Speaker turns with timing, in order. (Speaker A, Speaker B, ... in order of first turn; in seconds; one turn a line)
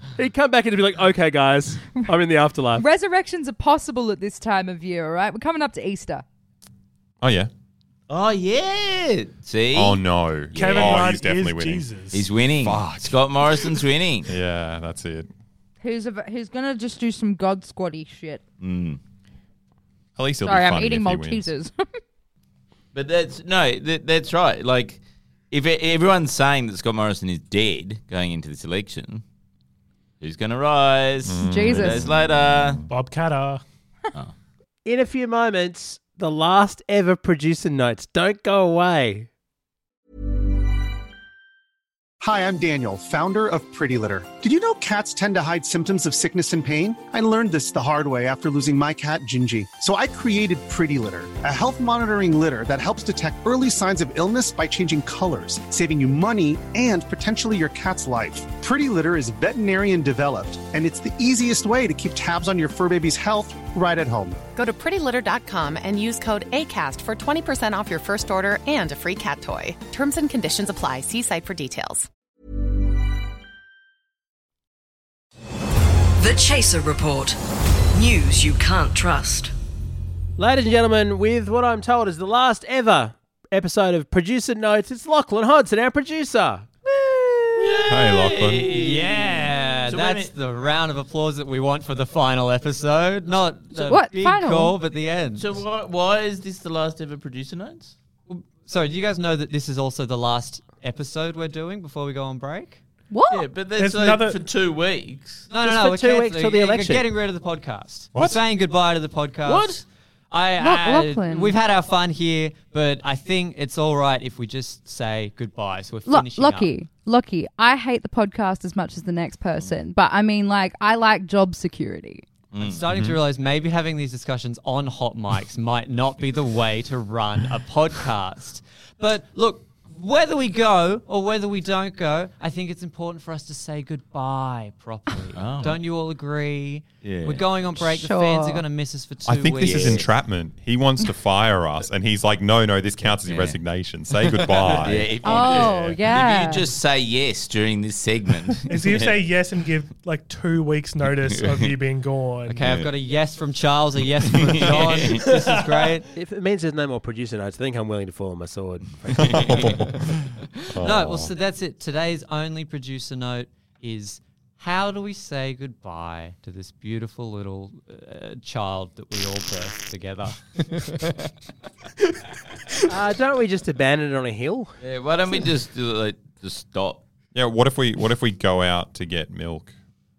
Speaker A: 0.2-2.8
Speaker B: 2.8-6.2
Speaker C: 7.2-7.5
Speaker D: 8.1-10.0
Speaker C: 9.7-11.8
Speaker D: 10.5-11.1
Speaker E: 10.5-12.3
Speaker D: 12.1-14.3
Speaker C: 12.6-15.3
Speaker B: 15.8-18.4
Speaker D: 18.6-19.0
Speaker C: 20.2-21.5
Speaker B: 20.4-21.7
Speaker D: 22.9-25.0
Speaker D: 25.5-29.2
Speaker D: 30.2-32.8
Speaker C: 31.2-32.8
Speaker B: 31.4-32.1
Speaker E: 32.9-33.6
Speaker A: 34.8-39.3
Speaker F: 42.2-64.4
Speaker G: 64.5-72.1
Speaker H: 76.2-77.3
Speaker H: 78.0-79.5
Speaker A: 80.4-87.4
Speaker D: 87.6-90.3
Speaker C: 87.9-88.7
Speaker I: 88.7-95.6
Speaker B: 93.8-94.7
Speaker D: 95.3-97.9
Speaker I: 98.3-102.8
Speaker B: 103.1-103.5
Speaker D: 103.3-105.5
Speaker E: 103.8-104.4
Speaker I: 105.5-116.7
Speaker A: 105.6-107.1
Speaker C: 108.1-108.4
Speaker D: 109.5-109.8
Speaker B: 110.6-111.6
Speaker B: 116.1-122.2
Speaker D: 122.5-122.8
Speaker I: 122.6-140.1
Speaker C: 122.9-123.2
Speaker D: 135.3-135.8
Speaker D: 137.0-137.5
Speaker B: 137.8-138.7
Speaker C: 139.2-146.0
Speaker D: 139.6-140.1
Speaker D: 143.2-143.6
Speaker I: 144.4-145.0
Speaker D: 144.4-149.3
Speaker B: 145.2-146.7
Speaker E: 148.7-152.6
Speaker D: 151.0-151.8
Speaker I: 152.5-156.1
Speaker C: 152.6-152.9
Speaker D: 154.5-155.3
Speaker E: 155.1-155.9
Speaker A: 156.1-159.8
Speaker C: 159.2-161.3
Speaker D: 159.3-159.5
Speaker I: 159.7-160.0
Speaker I: 160.7-171.3
Speaker A: 172.9-174.7
Speaker D: 174.8-177.0
Speaker C: 177.3-179.7